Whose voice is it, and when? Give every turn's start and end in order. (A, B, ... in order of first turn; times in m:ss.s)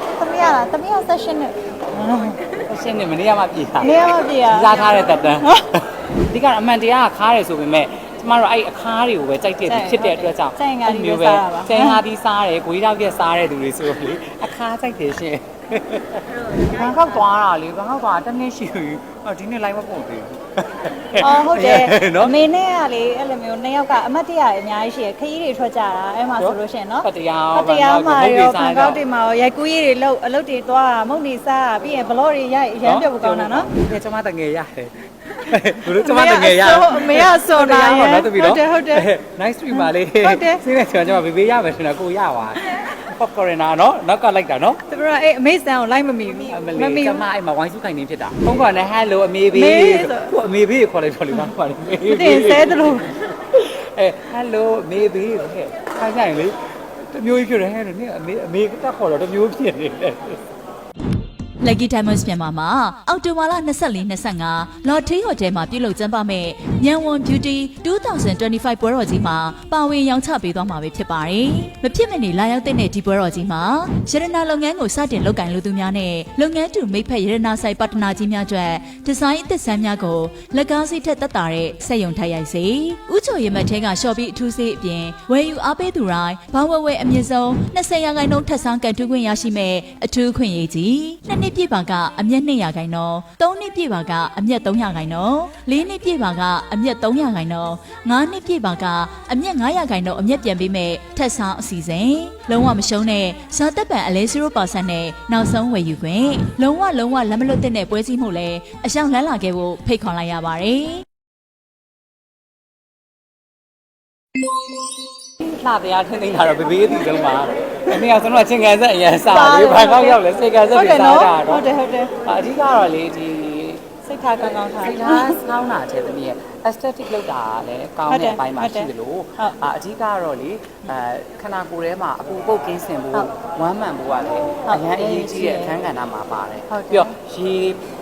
0:00.2-0:02.5 A
0:02.6-0:22.4 B
0:03.8-0:05.8 A
0:09.6-0:12.0 A
0:21.2-0:33.7 A
0:26.4-0:29.0 B
0:32.8-0:44.8 B
0:35.8-0:39.1 A
0:39.7-0:40.6 A
0:44.9-0:47.3 A
0:46.4-1:00.4 B
0:49.5-0:50.3 A
0:52.0-0:53.1 A
1:01.6-1:51.0 C
1:55.4-2:17.8 B
1:59.2-2:02.2 A
2:04.0-2:05.4 A
2:08.1-2:09.6 A
2:14.6-2:15.8 A
2:16.7-2:17.2 A